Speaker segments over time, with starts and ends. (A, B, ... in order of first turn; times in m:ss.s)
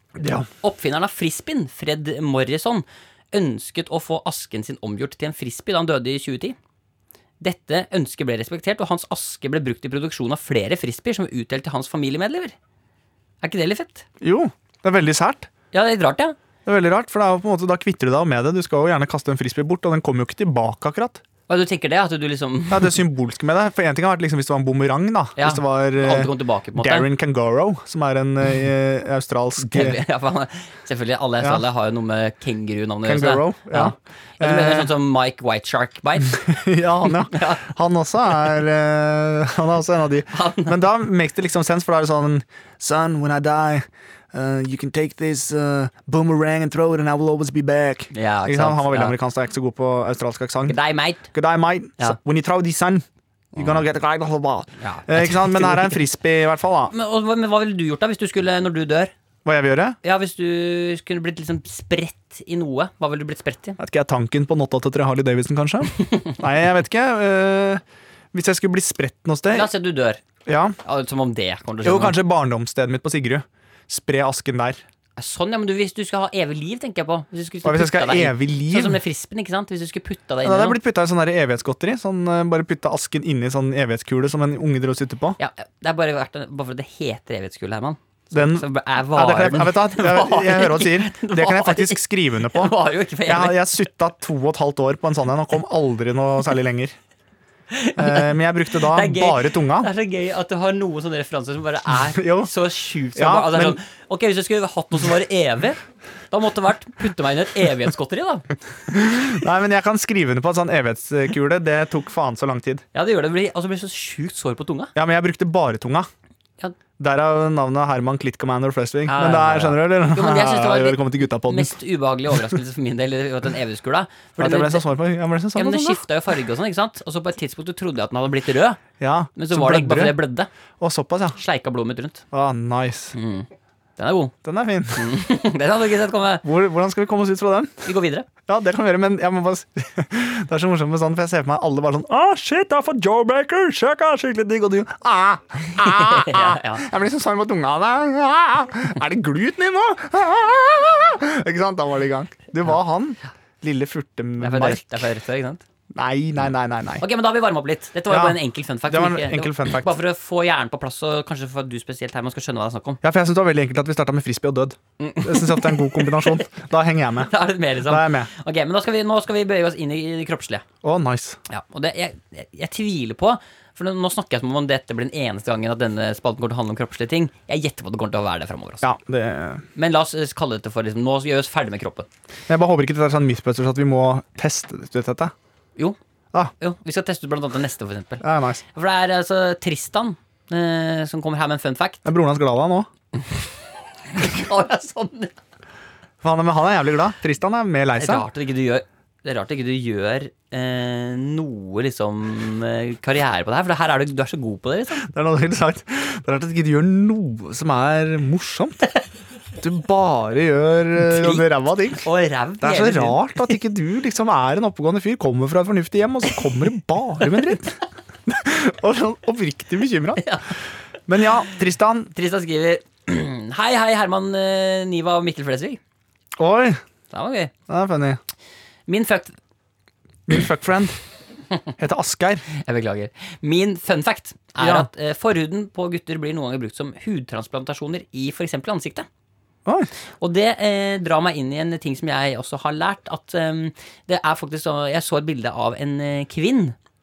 0:00.2-0:00.5 A
0:00.6-0:06.6 B
0:07.4-0:12.6 B
0:13.4-0:14.1 B
0:14.2-0:15.5 A
0:15.7-0:16.4 B
0:16.7-0:21.2 A
0:21.5-0:23.0 B
0:22.7-0:30.0 A
0:25.4-0:27.1 B
0:29.6-0:36.4 B
0:33.0-0:34.9 A
0:36.3-0:56.9 A
0:37.3-0:37.7 B
0:40.3-0:40.8 B
0:48.1-0:49.2 B
0:50.7-0:51.3 B
0:53.6-0:53.8 B
0:54.8-0:56.0 B
0:56.9-0:59.1 B
0:59.4-1:00.0 A
1:00.0-1:03.8 B
1:03.8-1:07.8 A
1:08.3-1:09.7 A
1:09.5-1:10.2 B
1:10.5-1:10.8 A
1:10.8-1:12.2 B
1:11.8-1:14.8 A
1:15.2-1:20.8 B
1:17.6-1:19.0 A
1:20.4-1:25.4 A
1:25.4-1:33.7 B
1:28.3-1:37.0 A
1:37.7-1:45.8 B
1:38.0-1:39.9 A
1:42.1-1:42.5 A
1:43.2-1:43.8 A
1:46.3-1:48.5 B
1:48.9-1:52.8 A
1:52.9-1:54.9 B
1:55.0-1:56.1 A
1:57.0-2:01.8 A
1:59.1-2:04.9 B
2:04.4-2:06.0 A
2:05.6-2:08.8 B
2:09.0-2:10.2 A
2:09.4-2:10.5 B
2:10.8-2:11.4 A
2:11.4-2:12.2 B
2:12.3-2:13.2 A
2:13.2-2:14.3 B
2:14.4-2:15.1 A
2:15.0-2:16.4 B
2:16.4-2:17.9 A
2:17.8-2:18.3 B
2:18.5-2:35.0 A
2:25.8-2:26.8 B
2:34.4-2:35.6 B
2:35.9-2:37.0 A
2:37.0-2:43.0 B
2:38.1-2:39.9 A
2:43.0-2:48.3 A
2:45.0-2:46.5 B
2:47.2-2:50.6 B
2:50.8-2:51.4 A
2:51.5-2:58.9 B
2:58.8-2:59.6 A
2:59.8-3:02.1 B
3:02.5-3:05.3 A
3:06.6-3:12.0 B
3:08.2-3:08.6 A
3:12.0-3:12.9 A
3:14.1-3:15.3 B
3:16.2-3:18.3 A
3:18.0-3:25.1 B
3:25.0-3:28.9 A
3:29.6-3:32.0 A
3:31.0-3:33.3 B
3:32.6-3:40.2 A
3:40.2-3:40.5 B
3:41.1-3:42.1 A
3:42.1-3:45.8 B
3:46.4-3:46.8 A
3:47.1-3:47.5 B
3:47.7-3:48.2 A
3:48.9-3:49.4 B
3:50.3-3:51.0 A
3:51.8-3:52.4 A
3:52.5-3:59.1 B
3:54.6-3:54.9 A
4:00.2-4:06.8 B